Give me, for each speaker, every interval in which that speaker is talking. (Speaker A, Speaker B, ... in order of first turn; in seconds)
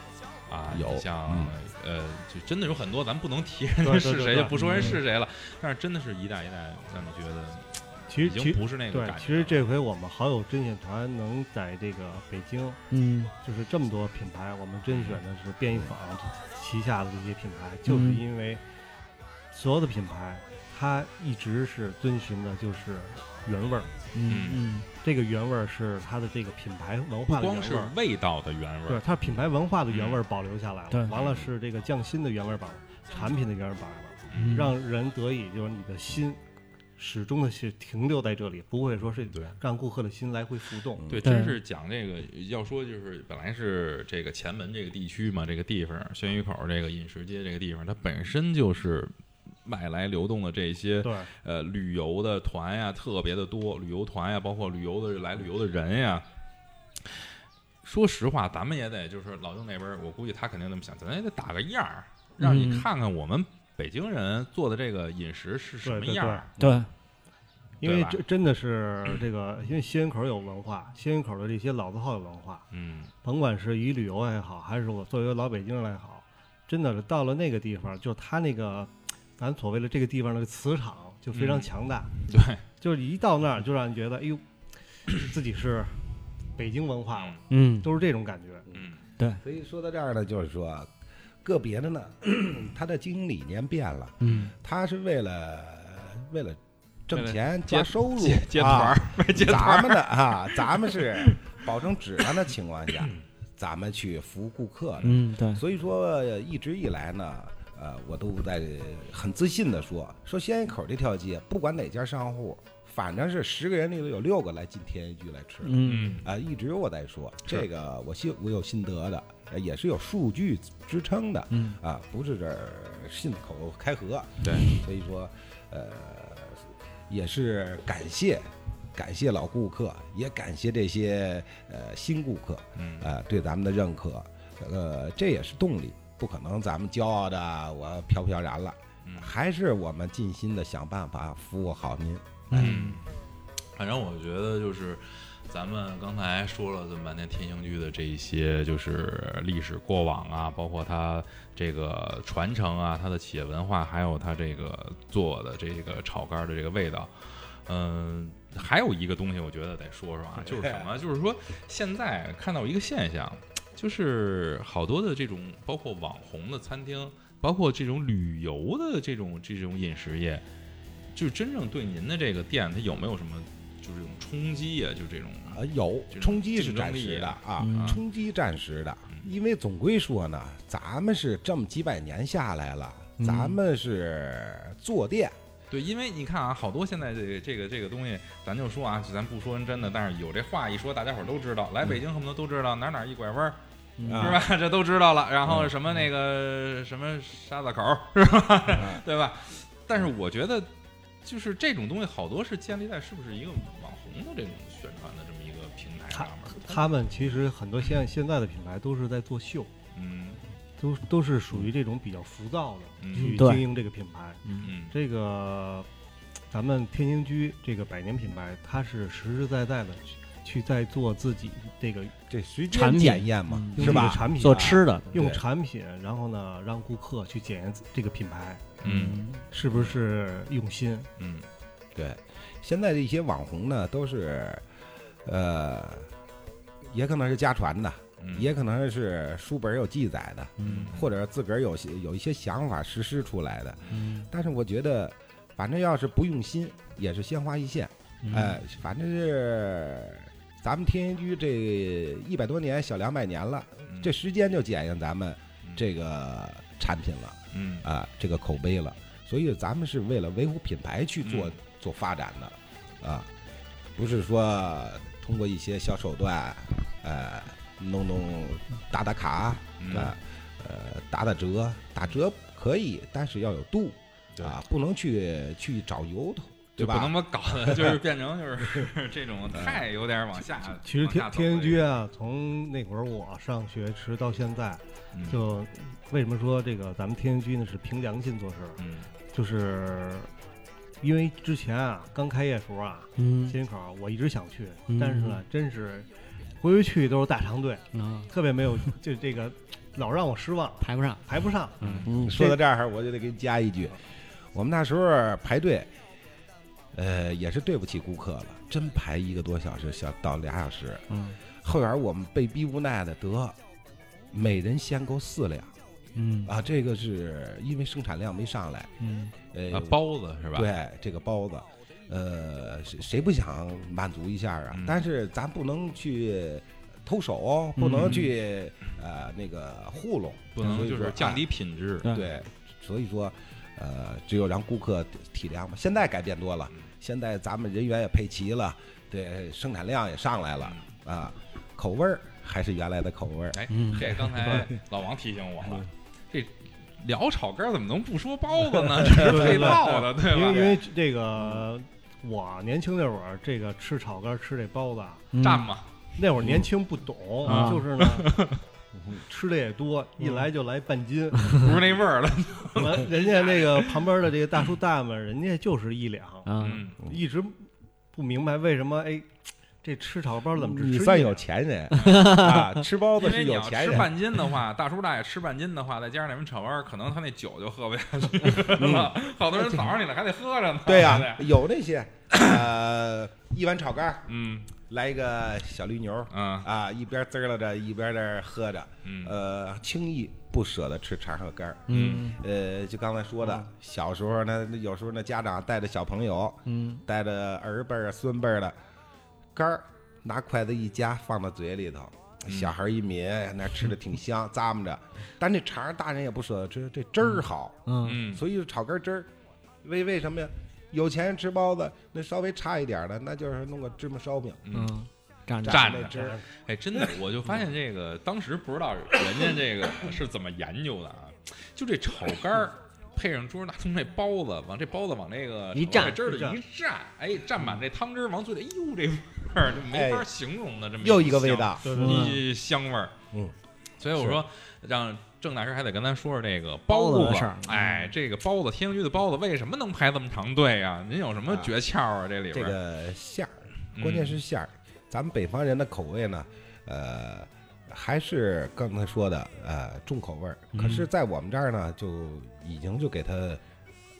Speaker A: 0.5-9.7, 14.9-15.2, 24.3-24.7, 27.3-29.1, 29.9-30.2, 31.1-31.5, 34.3-34.7, 39.3-39.6, 41.1-49.1, 49.6-56.2, 57.8-66.5, 67.8-68.2, 72.7-73.1, 81.3-81.7, 82.3-82.6, 87.1-87.4, 88.7-89.0, 94.2-94.5, 97.1-101.6, 115.8-116.3, 124.4-124.7, 132.8-133.1, 139.1-139.3, 142.5-143.0, 143.8-170.4, 171.1-178.0, 185.7-193.6, 194.1-200.7, 201.2-206.9, 209.9-210.4, 213.0-213.6, 214.6-214.9, 228.8-230.0, 231.2-231.5, 238.2-238.5, 240.6-241.1, 253.9-254.1, 257.5-257.9, 261.2-261.6, 269.8-270.1, 276.8-281.9, 285.1-285.4, 288.8-289.1, 301.8-302.1, 319.7-320.7, 324.7-325.0, 330.6-332.1, 343.5-350.8, 355.4-355.9, 357.5-358.6, 361.5-364.1, 366.6-367.0, 372.0-372.5, 373.2-381.5, 384.3-384.7, 386.3-386.7, 389.1-389.4, 391.9-392.3, 408.0-408.4, 414.7-415.0, 415.6-433.1, 434.0-442.8, 443.9-444.4
Speaker B: 0.7-1.6, 41.0-41.3, 88.7-90.9, 91.4-142.9, 160.4-160.9, 175.5-185.4, 194.1-194.4, 195.4-195.7, 198.7-199.0, 222.3-225.4, 231.9-234.6, 235.2-236.1, 236.8-263.3, 264.0-278.0, 279.5-279.8, 302.1-304.0, 304.5-305.9, 306.9-311.1, 311.6-313.6, 314.3-315.7, 316.4-318.9, 319.5-320.0, 320.5-331.4, 332.1-344.2, 349.0-349.3, 358.9-359.2, 370.5-374.2, 378.7-379.9, 380.9-398.8, 399.6-409.3, 409.8-414.6, 415.6-416.4, 429.8-430.3, 431.0-431.9, 434.2-434.4, 441.5-441.7, 442.5-453.6
Speaker C: 3.8-5.0, 8.1-12.8, 13.4-18.6, 19.5-23.9, 25.0-27.9, 28.9-36.4, 37.0-41.0, 51.0-51.3, 65.8-66.5, 67.8-72.7, 73.2-82.1, 82.8-84.4, 85.0-86.0, 86.6-88.7, 206.1-209.7, 210.8-215.9, 216.5-222.1, 223.8-228.8, 229.5-231.1, 280.8-288.8, 289.3-290.3, 291.0-296.1, 296.6-302.6, 349.2-355.3, 356.2-358.4, 359.2-362.0, 362.7-366.5, 367.0-369.3, 369.8-371.4, 416.1-416.4, 425.9-426.6, 431.8-432.4
Speaker D: 4.5-5.0, 12.9-13.3, 17.9-18.2, 24.1-24.9, 34.4-34.8, 41.2-41.6, 62.4-62.9, 66.6-66.9, 87.5-87.9, 94.2-94.5, 105.0-105.6, 115.6-116.2, 121.5-121.8, 142.5-143.0, 177.6-178.0, 183.2-183.6, 194.0-194.4, 213.1-213.7, 214.4-214.7, 222.7-225.1, 228.8-229.4, 240.6-240.9, 243.9-244.3, 248.2-248.6, 293.2-293.6, 294.9-295.4, 297.9-298.3, 300.8-301.2, 301.8-302.4, 311.1-311.4, 316.1-316.5, 319.0-319.3, 327.8-328.3, 343.7-344.7, 355.3-355.7, 357.4-357.9, 366.5-366.8, 372.0-372.7, 391.9-392.4, 396.7-397.0, 407.9-408.2, 414.7-416.1, 425.7-426.2, 432.0-432.4, 436.9-438.1, 450.7-451.1